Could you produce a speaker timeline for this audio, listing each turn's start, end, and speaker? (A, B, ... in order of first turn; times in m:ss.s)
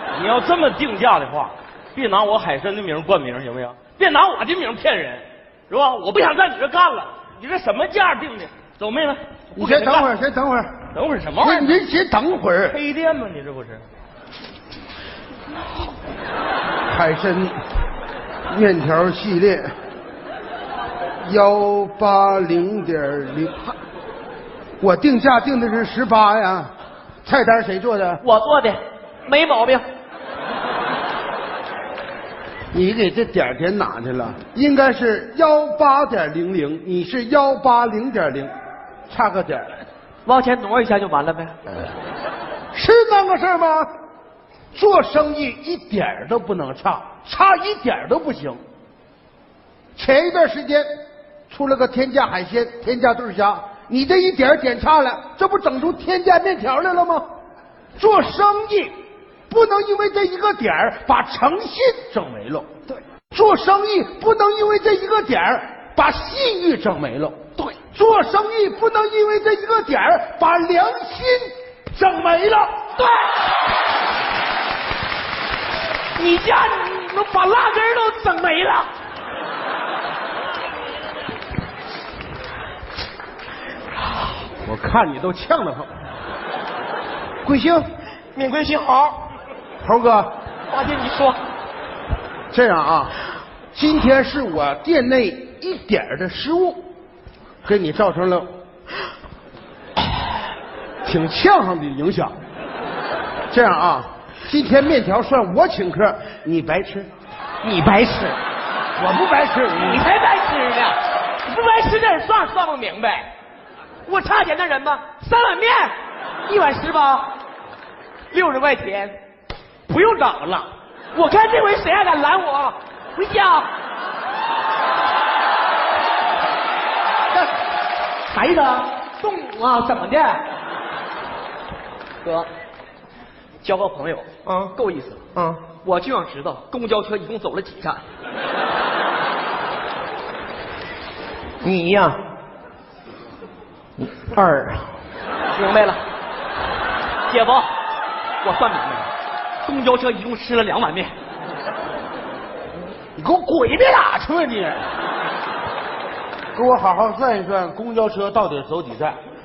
0:00.1-0:10.1 A
0:09.5-0:10.8 B
0:10.9-0:11.8 A
0:11.4-0:12.8 B
0:12.7-0:13.8 A
0:16.9-0:17.6 B
0:18.5-0:19.7 B
0:21.2-0:23.7 B
0:24.8-0:26.7 B
0:27.2-0:28.2 B
0:28.2-0:29.8 C
0:32.7-0:38.5 B
0:39.1-0:39.7 B
0:40.2-0:41.6 C
0:42.7-0:43.9 B
0:44.7-0:48.6 B
0:50.0-0:50.9 B
0:51.5-0:57.3 B
0:58.0-0:58.9 B
0:59.5-1:02.7 B
1:03.3-1:12.9 B
1:13.0-1:13.3 C
1:16.2-1:18.9 C
1:24.6-1:25.9 B
1:27.4-1:27.8 B
1:28.3-1:29.3 C
1:29.8-1:30.4 B
1:30.7-1:31.4 C
1:32.5-1:33.2 B
1:33.7-1:36.8 B
1:37.6-1:38.5 B
1:41.0-1:42.4 B
1:43.5-1:47.1 B
1:47.6-1:48.4 C
1:49.0-1:50.0 B
1:49.7-1:53.3 C
1:54.0-1:55.9 C
1:56.4-1:57.4 C
1:58.3-1:59.1 C
1:59.9-2:03.7 C
2:08.3-2:10.4 C
2:12.2-2:12.5 C
2:13.6-2:18.0 C
2:21.6-2:22.2 C
2:24.0-2:24.9 C
2:25.5-2:26.0 C
2:27.3-2:27.7 C
2:28.4-2:29.1 C
2:29.6-2:31.1 C
2:33.2-2:34.8 B
2:36.5-2:39.2 B